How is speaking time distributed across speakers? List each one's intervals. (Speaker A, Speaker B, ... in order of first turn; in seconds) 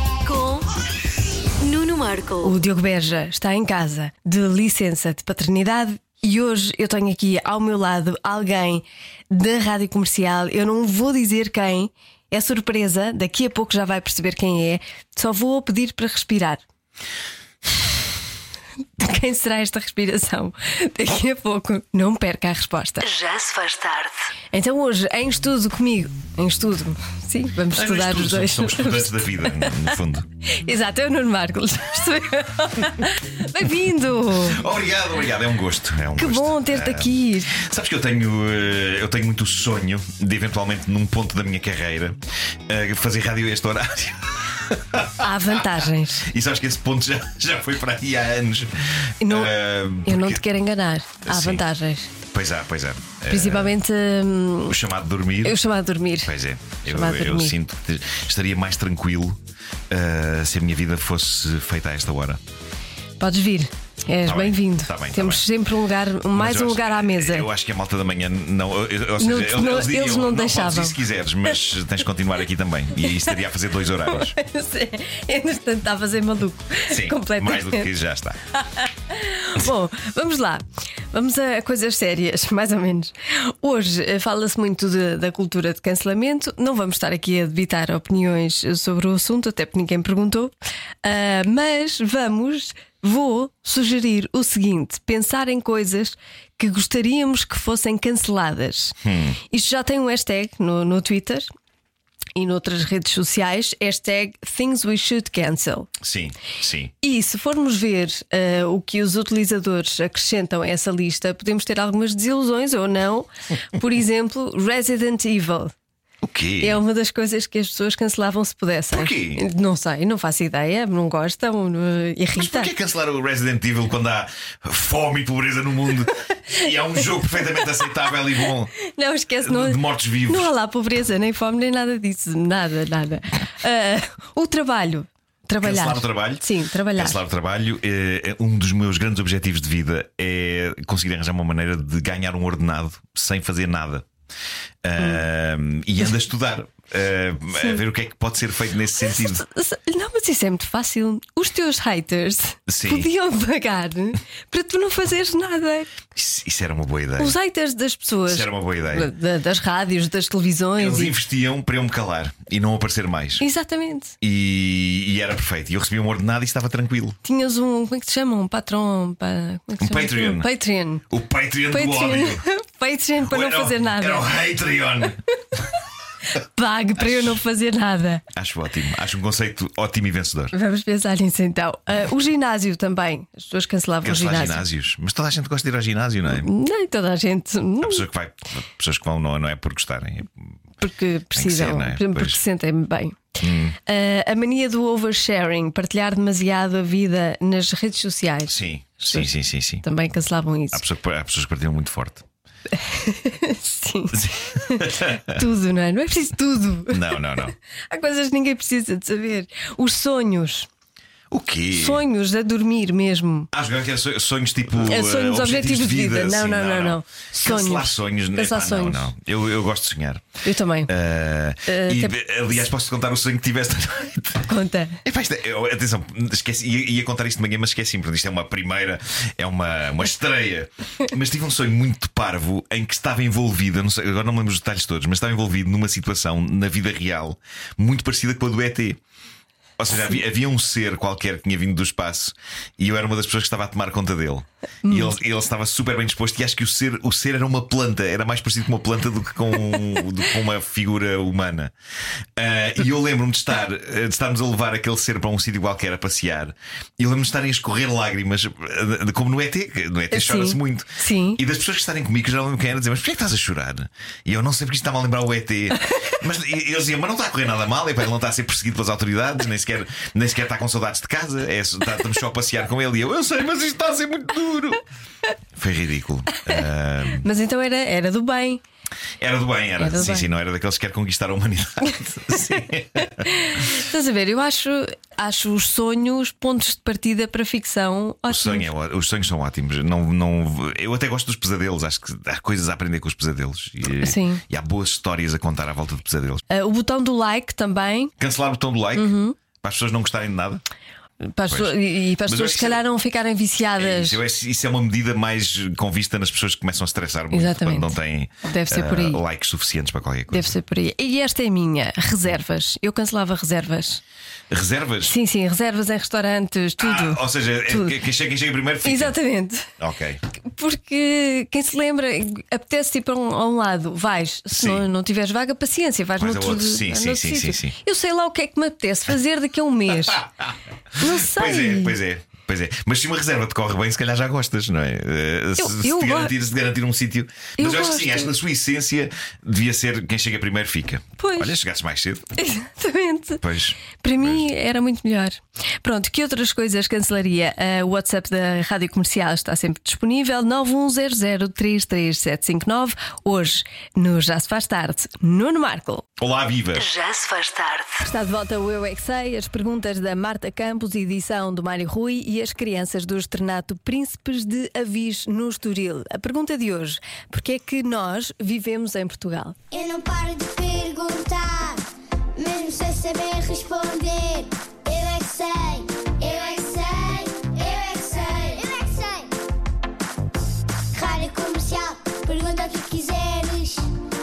Speaker A: 0.2-0.7, 1.6-2.6, 23.0-24.3, 356.8-358.0
Speaker B: 2.4-16.6, 19.0-23.1, 24.5-29.8, 30.5-34.6, 36.2-37.5, 45.2-46.3, 49.2-52.1, 53.3-54.8, 55.4-56.3, 56.9-57.6, 63.2-67.5, 69.2-71.0, 74.1-77.9, 78.6-99.0, 99.5-101.5, 102.4-105.9, 107.0-115.7, 116.6-122.7, 128.8-137.2, 147.5-147.8, 149.0-155.9, 157.2-161.1, 163.4-164.2, 167.2-171.1, 171.7-174.3, 176.4-178.2, 180.5-184.7, 186.3-188.0, 190.8-198.6, 199.1-200.8, 202.7-207.2, 207.9-210.7, 211.7-213.5, 214.8-219.1, 220.4-220.9, 221.7-222.3, 224.5-225.0, 244.8-245.2, 260.1-261.4, 277.2-278.6, 279.8-280.3, 283.3-288.7, 294.0-294.4, 296.5-298.1, 299.0-299.4, 301.2-304.2, 307.3-309.2, 310.3-314.0, 315.1-318.0, 318.8-319.7, 320.4-330.2, 331.0-332.0, 335.6-336.3, 337.6-338.3, 341.2-341.5, 342.4-343.4, 344.0-356.1, 358.0-369.6
Speaker C: 27.7-30.3, 34.5-45.3, 46.2-50.4, 51.3-51.6, 52.3-53.8, 54.7-55.6, 56.2-59.4, 59.9-62.4, 64.2-65.5, 66.3-74.3, 76.9-78.4, 99.0-99.4, 106.0-106.9, 116.2-116.8, 118.9-119.4, 122.3-128.7, 129.4-130.5, 135.6-136.4, 137.0-144.1, 144.8-149.4, 152.7-153.1, 156.2-157.3, 158.3-159.1, 160.8-163.4, 164.2-167.2, 169.8-170.5, 171.1-172.4, 173.2-175.2, 177.0-177.4, 178.3-180.5, 184.0-186.5, 187.8-190.5, 191.3-192.4, 193.4-193.8, 198.5-199.8, 200.7-202.2, 204.1-205.4, 206.9-207.6, 211.3-212.0, 213.5-220.2, 220.9-224.5, 225.0-239.0, 239.8-251.7, 252.4-274.8, 275.6-277.3, 279.2-283.3, 288.3-296.4, 298.2-300.6, 301.5-302.8, 303.8-310.5, 314.5-315.1, 316.8-319.1, 319.8-320.2, 324.5-324.9, 326.2-327.8, 330.0-342.3, 343.4-344.5, 356.2-356.9
Speaker D: 369.7-371.8, 372.4-379.3, 380.9-383.9